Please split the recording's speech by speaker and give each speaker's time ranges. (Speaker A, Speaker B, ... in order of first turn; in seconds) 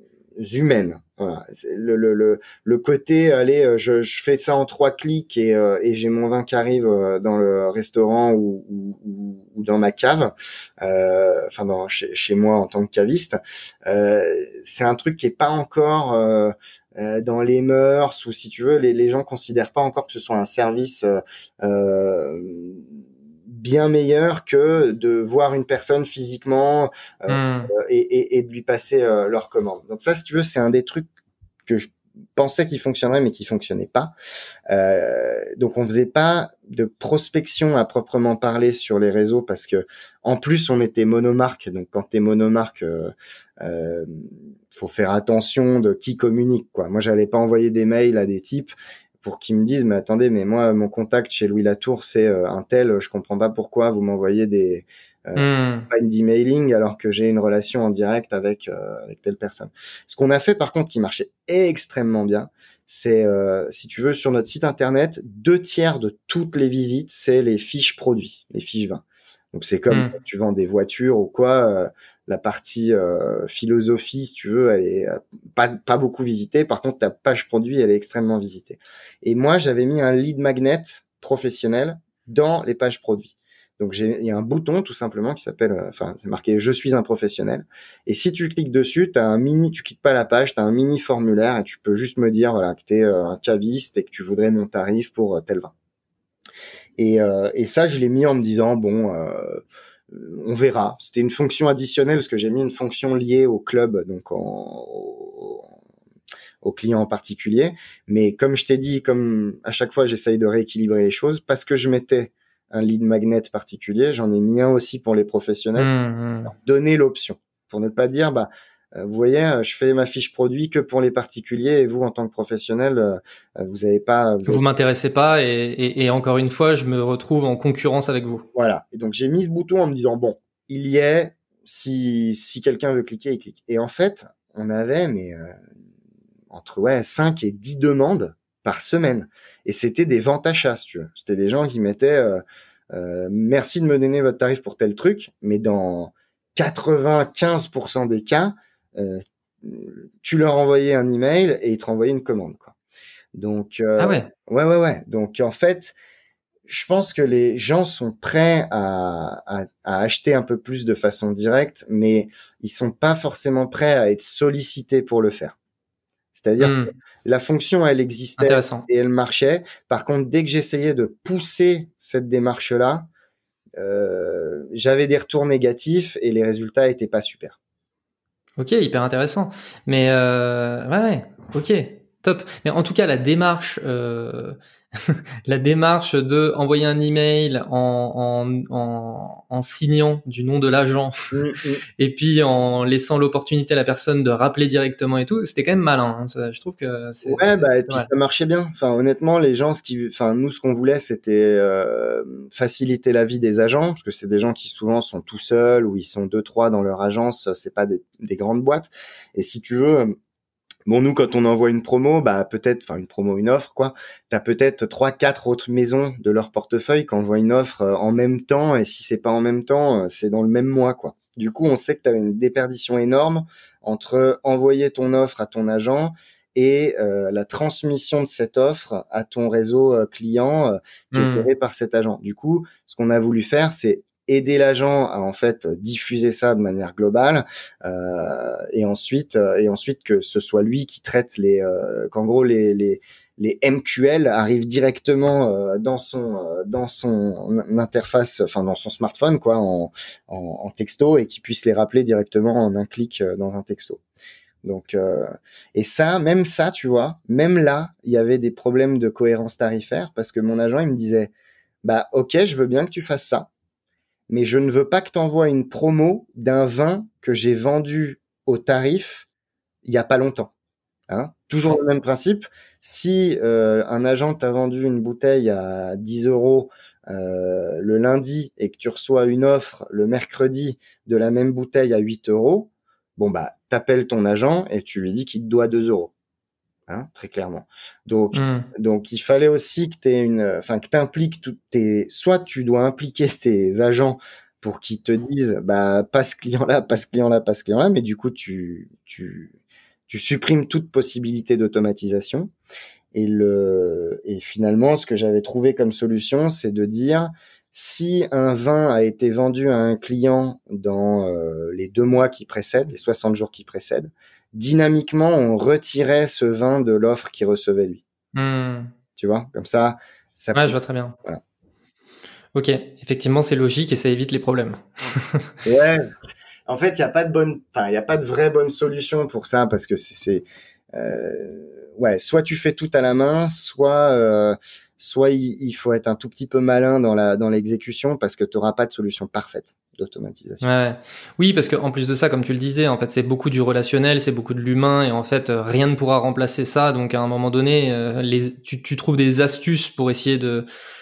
Speaker A: 0.4-22.9, 23.5-31.1, 31.6-34.1, 34.7-95.7, 97.0-105.7, 106.6-115.9, 116.5-124.6, 128.5-135.6, 136.5-152.7, 153.3-155.9, 156.7-165.5, 166.3-173.1, 173.8-177.6, 191.3-191.8, 197.2-210.1, 210.9-254.0, 254.6-261.3, 261.8-263.5, 264.3-269.3, 269.8-270.5, 271.1-286.1, 286.9-299.5, 300.1-302.5, 303.1-318.0, 319.2-321.4, 325.6-326.0, 326.7-340.6
Speaker B: 27.3-27.7, 55.4-55.9, 69.9-70.2, 115.8-116.5, 124.5-128.4, 154.0-154.3, 166.6-166.9, 168.4-168.8, 178.6-191.2, 192.0-198.1, 231.1-231.5, 288.3-288.7, 318.3-318.9, 320.5-321.1, 322.5-325.6, 340.6-350.7